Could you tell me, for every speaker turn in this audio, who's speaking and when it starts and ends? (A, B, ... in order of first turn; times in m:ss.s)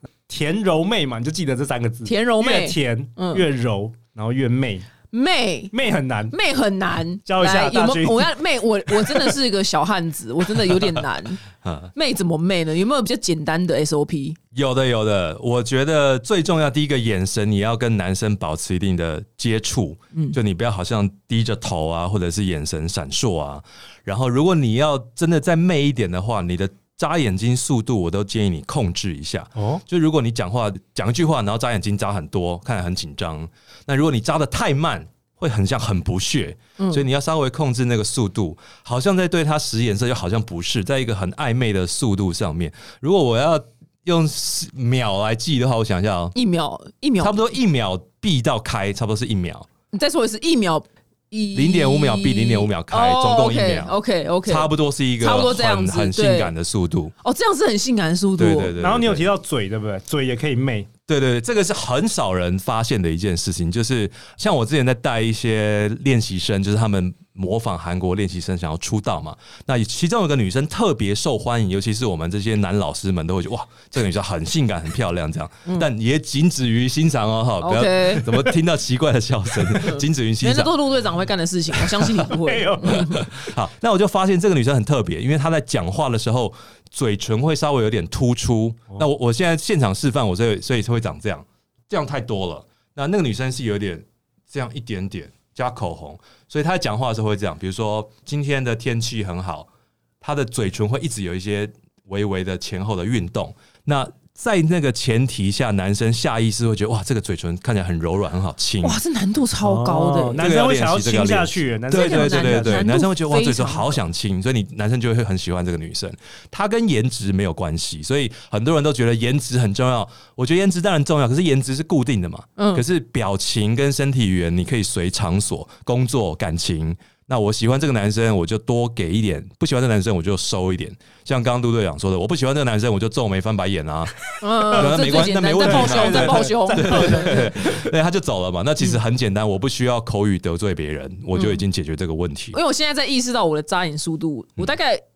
0:00.3-0:04.9 A
0:02.0-0:03.4 B
0:05.1-0:05.7 B
0:05.7-0:06.3 A
0:06.3-0:11.4 B
0:07.2-0:09.3 A
0:11.6-0:11.9 C
0:11.9-0:14.4 B
0:14.5-0:46.3 C
0:29.6-0:29.8 A
0:36.8-0:37.0 B
0:46.3-0:47.5 B
0:47.2-0:49.6 C
0:49.9-0:56.5 B
0:51.5-0:53.9 C
0:54.4-0:57.1 C
0:57.2-0:58.7 B
0:58.4-0:59.3 C
0:58.8-1:00.9 A
1:01.1-1:20.7 C
1:17.6-1:18.3 B
1:19.7-1:23.2 B
1:22.1-1:23.3 A
1:22.8-1:39.7 C
1:40.2-1:49.0 C
1:48.8-1:50.4 B
1:49.6-1:52.9 A
1:50.4-2:22.6 C
1:51.9-1:54.0 B
2:02.6-2:02.8 B
2:14.4-2:17.5 B
2:14.7-2:15.0 A
2:15.6-2:17.9 A
2:21.3-2:21.6 B
2:22.5-2:25.0 B